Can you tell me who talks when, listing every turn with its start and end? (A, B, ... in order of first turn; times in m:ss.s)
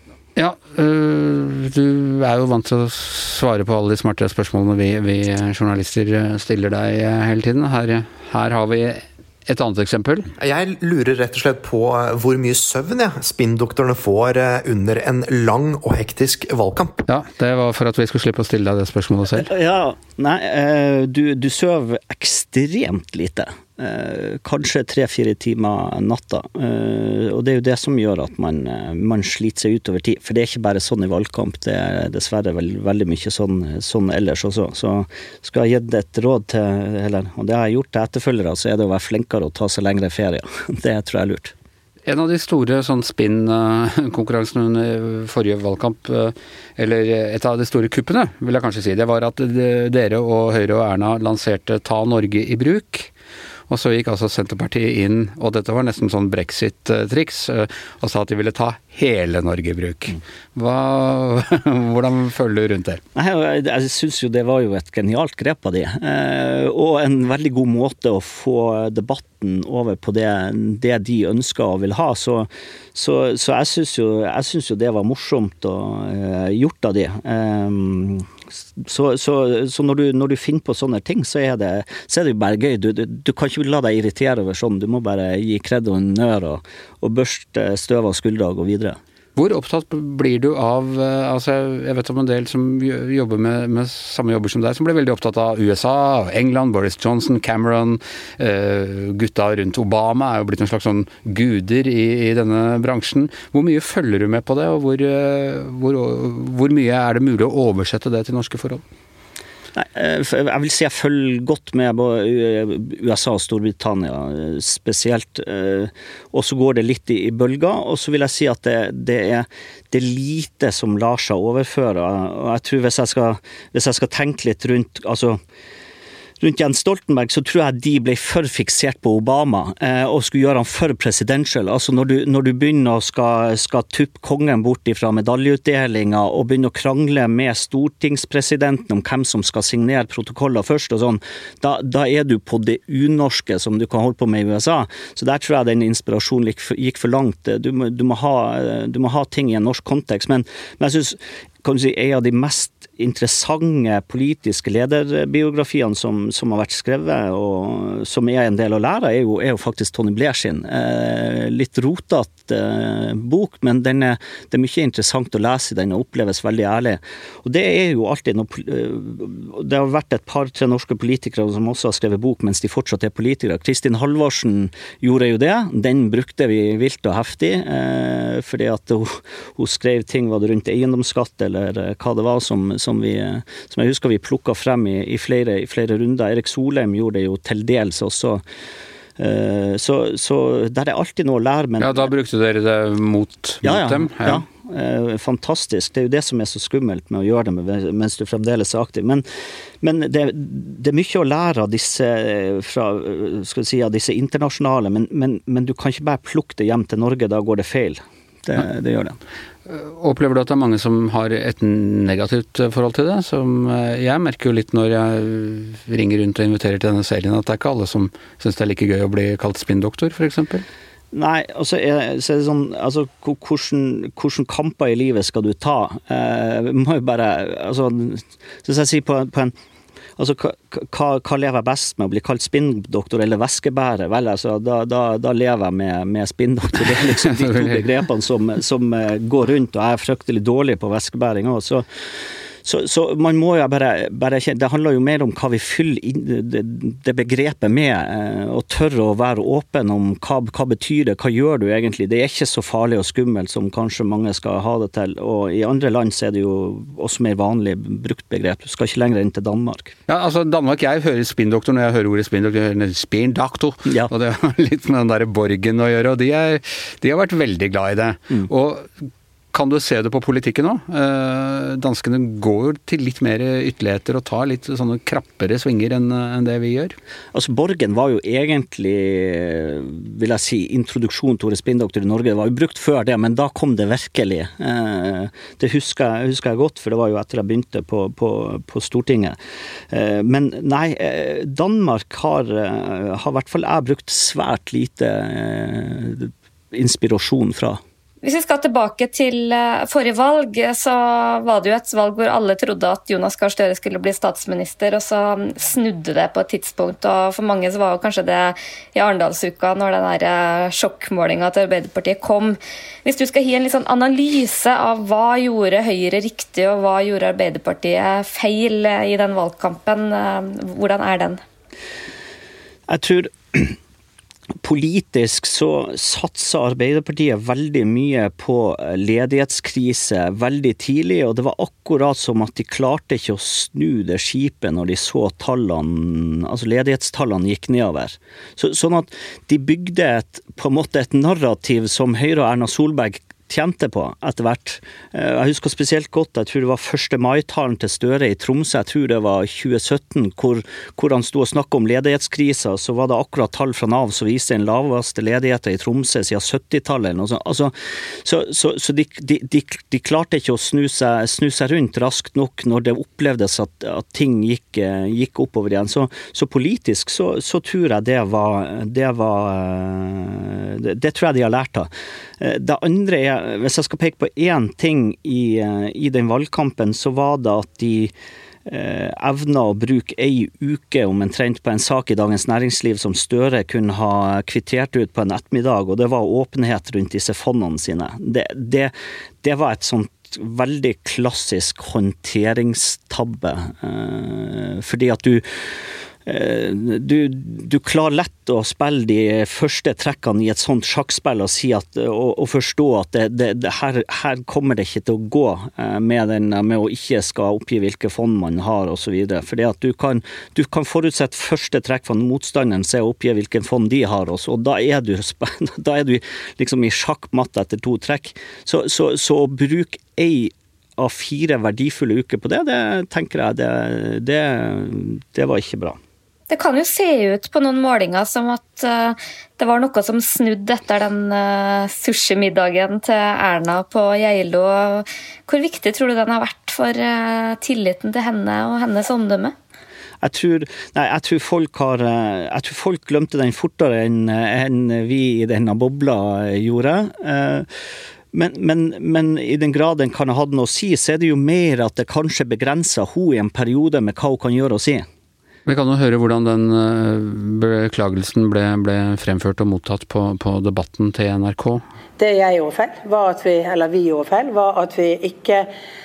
0:00.4-0:10.3 A
0:10.4-0:17.0 B
0:17.1-0:19.5 A
0:19.4-0:41.5 C
0:42.1-0:53.1 A
0:53.7-1:03.0 A
1:03.2-1:29.0 C
1:29.4-1:48.8 A
1:49.8-2:05.4 C
2:06.4-3:08.4 C
3:09.2-3:12.1 C
3:11.8-3:14.4 A
3:13.6-3:19.2 C
3:19.8-3:29.2 C
3:29.7-3:40.6 A
3:41.1-3:49.5 C
3:50.2-4:01.9 C
3:57.3-3:57.8 A
4:02.6-4:19.9 C
4:20.1-4:28.9 A
4:29.5-4:37.0 A
4:37.3-4:49.4 C
4:49.9-4:57.8 C
4:58.2-5:21.4 D
5:22.9-5:23.8 C
5:24.6-6:18.1 C
6:18.7-6:35.7 C
6:36.2-7:06.0 C
7:06.5-7:19.6 D
7:20.2-7:27.7 C
7:28.3-7:35.0 C
7:35.7-7:41.8 A
7:42.2-7:45.7 E